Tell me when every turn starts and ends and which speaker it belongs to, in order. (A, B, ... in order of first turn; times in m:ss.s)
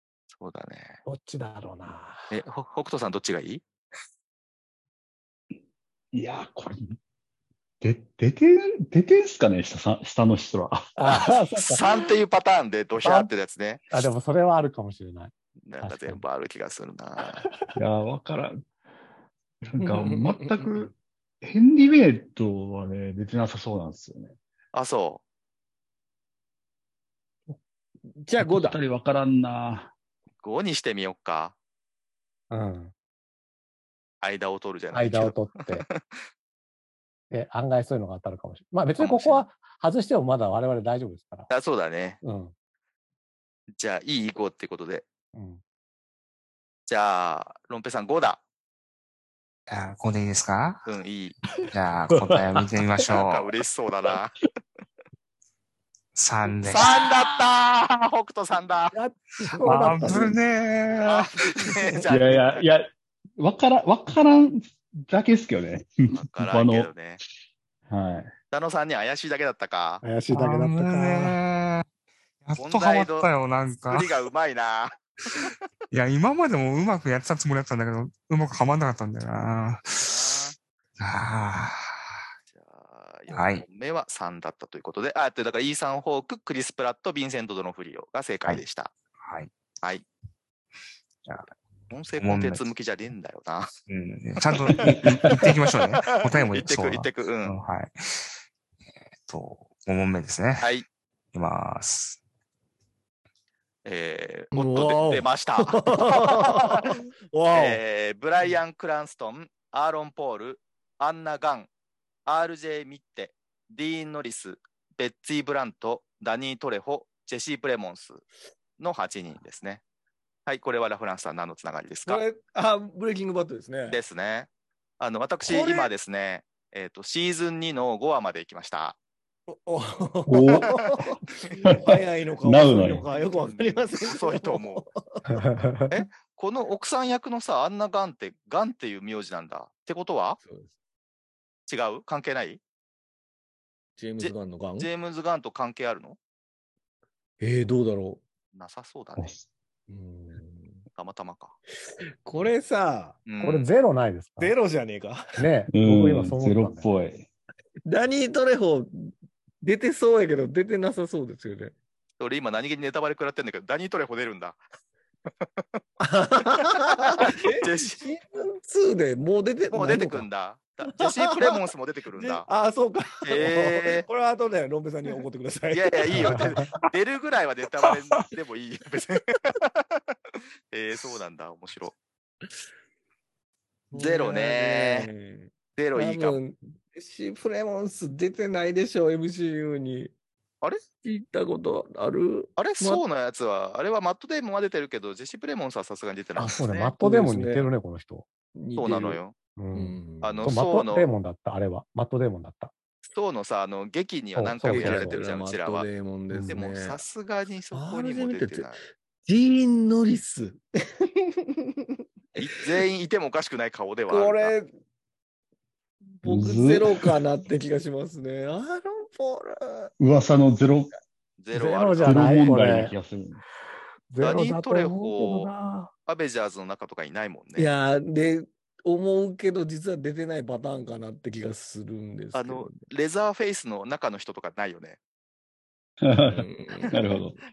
0:00.4-0:01.0 A
0:01.0-0:02.4 B
0:02.3-0:03.6 A
0:06.1-0:07.0 C
0:07.8-0:11.0 C
0:11.0-0:12.1 B
0:11.6-0:13.8 A
0:13.0-0:13.3 B
0:13.9-0:16.2 B
0:15.6-0:17.5 A
0:17.8-0:18.6 C
0:19.6-0:24.4 C
0:19.8-0:20.9 D
0:24.7-0:25.2 A
0:28.1-0:28.8 D
0:28.4-0:29.9 C
0:30.4-0:31.6 A
0:32.5-0:32.9 B
0:34.2-0:36.2 A
0:34.9-0:35.8 B
0:37.3-0:41.5 B
0:39.0-0:39.5 A
0:41.5-0:42.2 A
0:42.2-0:42.5 B
0:43.8-0:45.1 A
0:45.3-0:45.6 B
0:46.9-0:48.4 A
0:49.7-0:50.9 E
0:50.9-0:51.4 A
0:51.7-0:53.5 E
0:52.1-0:52.7 C
0:53.1-0:54.4 A
0:56.2-0:56.9 E
0:56.7-0:58.9 A
0:58.9-1:00.4 B
0:59.6-1:01.6 E
1:01.0-1:02.6 A
1:02.1-1:06.9 C
1:06.1-1:07.2 A
1:07.9-1:08.3 C
1:08.5-1:10.0 A
1:10.0-1:11.4 B
1:10.3-1:11.9 E
1:12.4-1:14.1 E
1:12.6-1:13.3 A
1:13.9-1:15.5 A
1:15.9-1:20.1 E
1:20.0-1:20.6 A
1:21.0-1:22.2 E
1:22.5-1:28.9 A
1:23.3-1:23.6 E
1:29.2-1:29.5 E
1:31.9-1:33.7 A
1:32.2-1:32.7 E
1:33.9-1:38.3 E
1:34.7-1:35.5 C
1:34.8-1:35.5 A
1:36.0-1:37.6 A
1:39.2-1:40.7 E
1:40.6-1:40.9 A
1:41.3-1:42.2 E
1:43.8-1:47.0 A
1:44.5-1:47.8 D
1:47.5-1:51.7 A
1:52.3-1:58.2 A
1:58.8-1:59.8 A
2:00.5-2:02.2 A
2:02.1-2:04.0 D
2:03.9-2:04.5 A
2:05.0-2:09.0 A
2:05.4-2:05.9 D
2:09.5-2:15.3 D
2:10.3-2:10.8 C
2:10.8-2:11.0 A
2:11.6-2:13.1 C
2:13.1-2:14.8 A
2:15.3-2:16.1 B
2:15.9-2:20.4 A
2:20.4-2:20.7 D
2:21.7-2:22.6 A
2:24.0-2:24.9 D
2:24.2-2:26.2 A
2:27.4-2:28.2 D
2:28.5-2:29.3 A
2:29.2-2:29.5 C
2:29.9-2:30.9 D
2:31.0-2:31.6 A
2:32.2-2:33.2 D
2:33.3-2:33.7 A
2:33.4-2:34.6 B
2:34.4-2:35.3 D
2:35.4-2:36.9 B
2:35.7-2:37.3 C
2:37.9-2:41.8 D
2:42.2-2:44.6 A
2:46.0-2:50.3 D
2:46.8-2:48.0 A
2:49.7-2:52.5 A
2:51.0-2:51.6 D
2:52.2-2:56.5 D
2:53.2-2:54.0 A
2:55.7-3:02.0 A
3:03.9-3:10.1 D
3:04.0-3:05.1 A
3:05.8-3:06.4 A
3:11.0-3:13.0 D
3:12.6-3:16.9 A
3:16.4-3:18.3 B
3:16.8-3:17.7 D
3:18.6-3:19.2 D
3:18.8-3:19.3 A
3:19.6-3:22.7 B
3:19.7-3:20.5 D
3:20.2-3:21.1 A
3:23.1-3:25.9 A
3:24.4-3:25.2 B
3:24.7-3:27.0 D
3:26.3-3:26.6 B
3:26.5-3:28.8 A
3:27.7-3:31.9 D
3:32.4-3:34.5 A
3:34.1-3:34.7 D
3:36.2-3:39.9 D
3:36.2-3:37.2 C
3:40.0-3:41.0 C
3:41.4-3:42.5 A
3:41.5-3:43.0 B
3:42.0-3:43.4 C
3:44.1-3:45.9 B
3:44.2-3:45.5 A
3:46.1-3:47.7 A
3:47.6-3:52.8 D
3:52.3-3:55.0 A
3:56.0-3:57.4 C
3:56.3-3:57.1 D